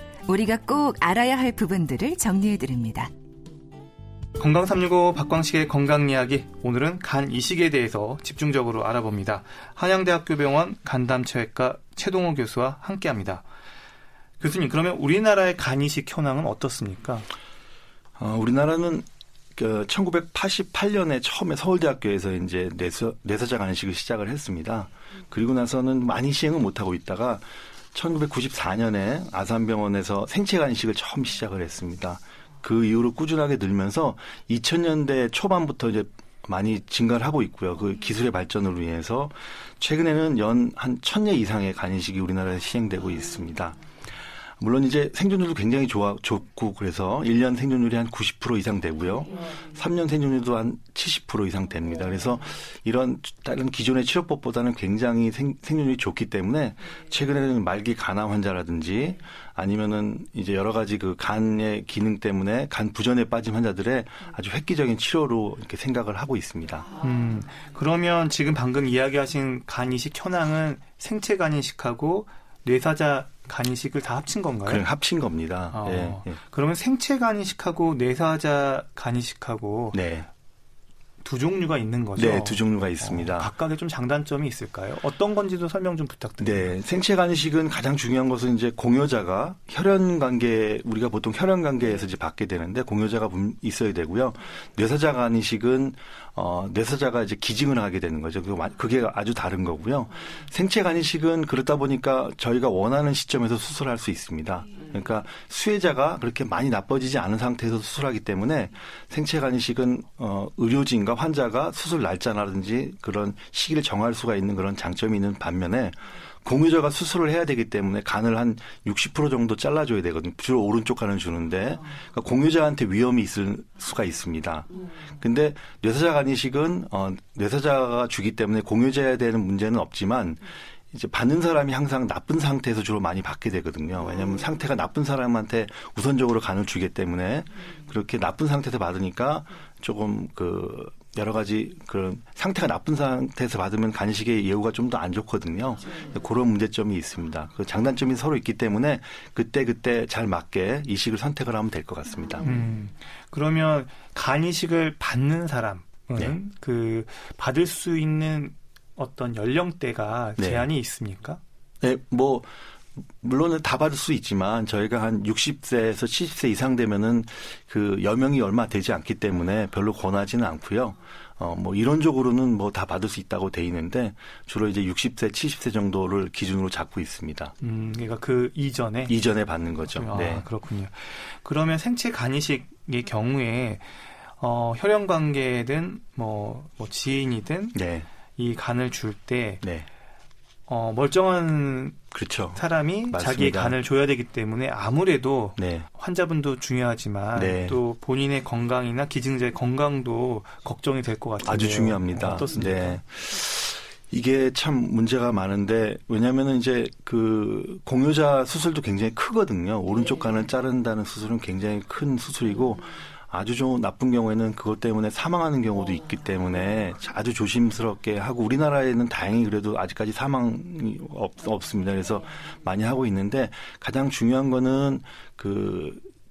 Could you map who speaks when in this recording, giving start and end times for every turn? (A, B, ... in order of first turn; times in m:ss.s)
0:00.3-0:03.1 A
0:04.4-0:13.4 B
0:14.4-0:17.3 B
0:18.2-0:43.8 C
0:44.6-1:06.9 C
1:07.0-1:14.9 B
1:14.7-1:16.4 C
1:15.7-1:20.0 B
1:19.9-1:20.3 C
1:21.2-1:26.8 B
1:22.2-1:23.5 C
1:26.4-2:32.5 C
2:32.4-2:41.4 B
2:40.4-2:40.7 C
2:41.8-2:42.5 C
2:43.2-2:57.5 C
2:57.6-2:59.2 B
2:59.1-3:00.5 C
2:59.9-3:07.8 B
3:07.7-3:08.1 C
3:08.4-3:09.6 B
3:09.6-3:09.9 C
3:10.7-3:12.0 B
3:12.1-3:13.8 C
3:12.5-3:23.0 B
3:15.6-3:15.9 C
3:17.4-3:17.8 C
3:21.4-3:46.1 C